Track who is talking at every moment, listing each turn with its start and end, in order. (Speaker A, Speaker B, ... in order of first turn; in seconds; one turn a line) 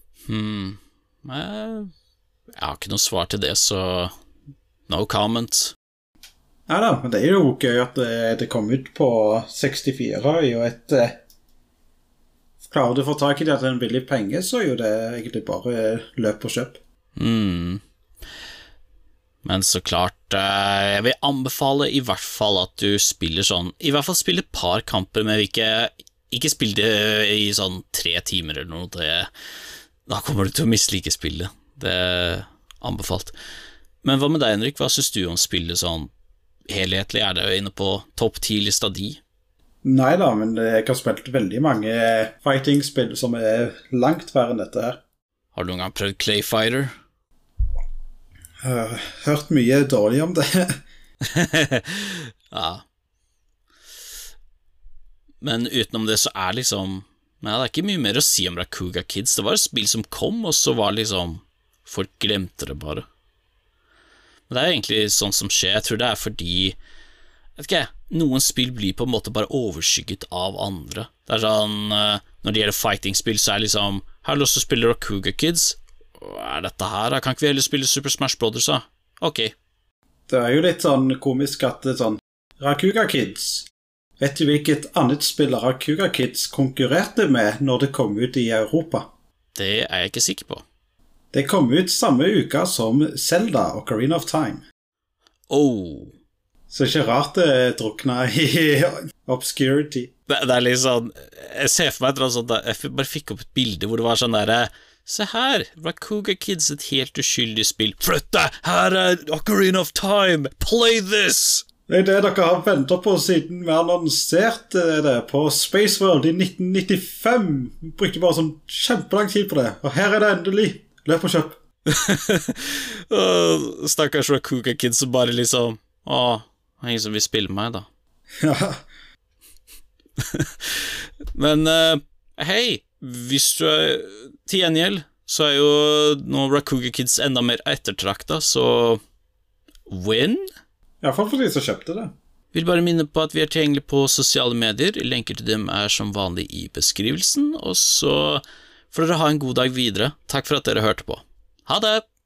Speaker A: 0.3-1.9
Speaker A: 2.6-4.1
Speaker A: 4.9-5.7
Speaker B: 6.7-11.2
Speaker B: 12.6-16.8
Speaker A: 17.1-17.8
Speaker A: 19.4-29.3
Speaker A: 30.1-33.3
Speaker A: 34.0-36.1
Speaker A: 36.7-39.2
Speaker B: 39.8-45.0
Speaker A: 45.5-46.9
Speaker B: 48.6-50.7
Speaker A: 51.3-52.8
Speaker A: 55.4-63.0
Speaker A: 64.5-66.8
Speaker A: 67.6-79.5
Speaker B: 80.3-83.7
Speaker B: 84.2-89.0
Speaker A: 89.5-90.6
Speaker B: 91.3-94.6
Speaker A: 95.5-96.1
Speaker B: 96.7-100.1
Speaker A: 100.3-111.6
Speaker B: 111.9-121.6
Speaker A: 121.9-127.8
Speaker B: 128.4-128.8
Speaker A: 130.2-139.0
Speaker A: 139.9-140.5
Speaker B: 141.0-142.1
Speaker A: 142.5-152.0